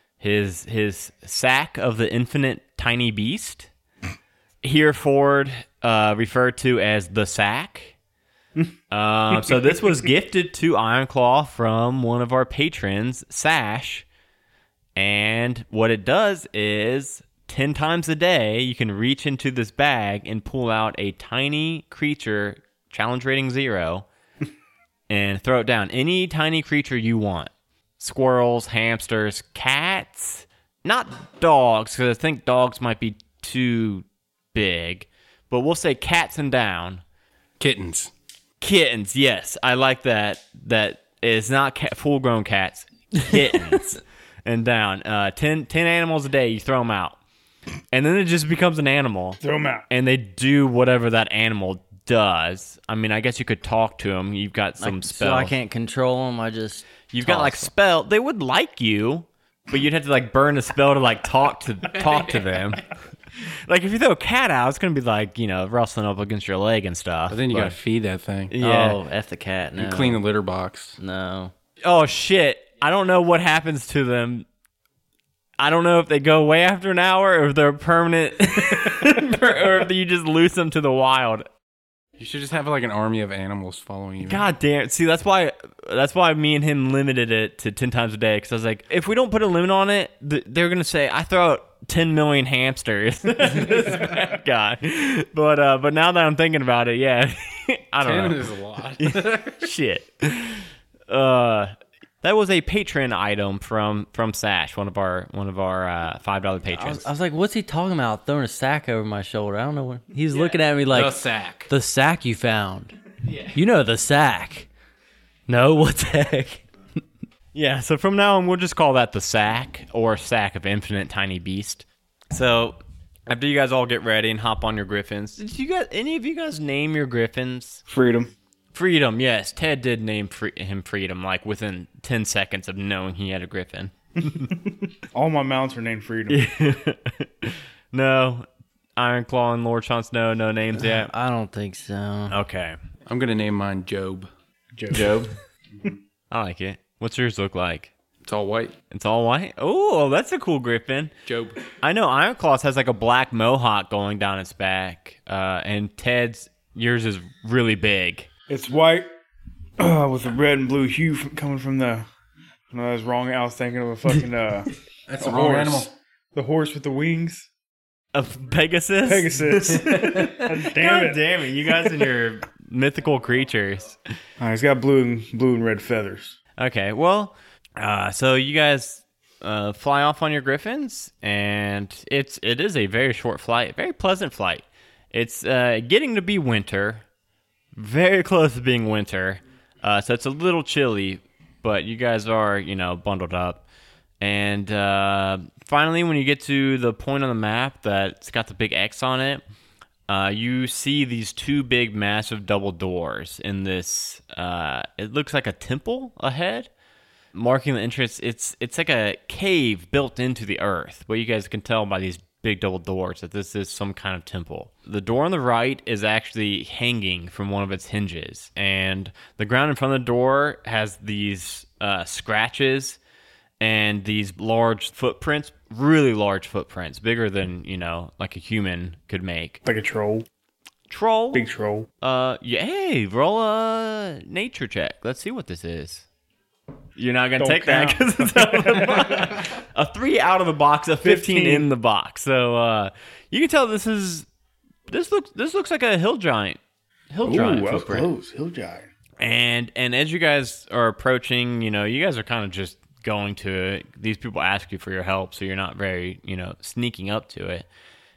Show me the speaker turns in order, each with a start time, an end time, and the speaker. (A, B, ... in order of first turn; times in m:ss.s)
0:00.2-0:03.7 A
0:04.6-0:08.0 A
0:08.9-0:14.1 A
0:15.0-0:24.1 A
0:25.1-0:37.0 A
0:37.6-0:38.1 B
0:38.6-0:47.2 A
0:47.9-0:55.5 A
0:49.4-0:49.9 C
0:54.8-0:57.7 D
0:57.1-1:02.9 A
1:03.7-1:07.8 A
1:07.3-1:08.6 B
1:08.5-1:09.0 A
1:08.6-1:10.2 D
1:09.8-1:11.0 B
1:11.0-1:11.5 D
1:11.8-1:14.5 A
1:15.6-1:21.5 A
1:22.2-1:24.4 B
1:24.2-1:38.4 A
1:38.0-1:39.7 B
1:39.0-1:47.1 A
1:46.7-1:52.9 D
1:50.3-1:51.7 B
1:53.5-1:54.7 D
1:55.5-1:56.6 D
1:57.5-2:07.8 A
2:07.9-2:08.3 C
2:08.7-2:14.5 A
2:15.1-2:16.4 C
2:16.3-2:18.5 A
2:19.0-2:21.1 A
2:20.8-2:22.4 D
2:22.3-2:22.8 A
2:23.1-2:24.3 B
2:24.8-2:25.2 C
2:24.9-2:25.3 A
2:26.3-2:27.9 A
2:28.2-2:28.8 B
2:28.9-2:31.1 A
2:31.3-2:31.6 B
2:31.8-2:38.3 A
2:38.5-2:39.1 C
2:39.8-2:42.1 C
2:42.7-2:47.5 C
2:45.1-2:45.9 B
2:48.1-2:54.0 A
2:49.0-2:52.1 C
2:54.4-2:56.4 C
2:56.6-3:07.0 A
3:07.8-3:13.6 A
3:14.2-3:19.4 A
3:20.1-3:26.7 A
3:27.3-3:43.0 A
3:43.6-3:49.6 A
3:49.6-3:50.3 C
3:50.9-3:51.5 A
3:51.3-3:51.9 C
3:52.0-3:56.1 A
3:57.0-4:04.3 A
3:57.4-3:59.4 C
4:01.0-4:01.7 C
4:04.9-4:06.6 A
4:07.1-4:08.1 A
4:07.2-4:08.9 C
4:09.2-4:17.7 A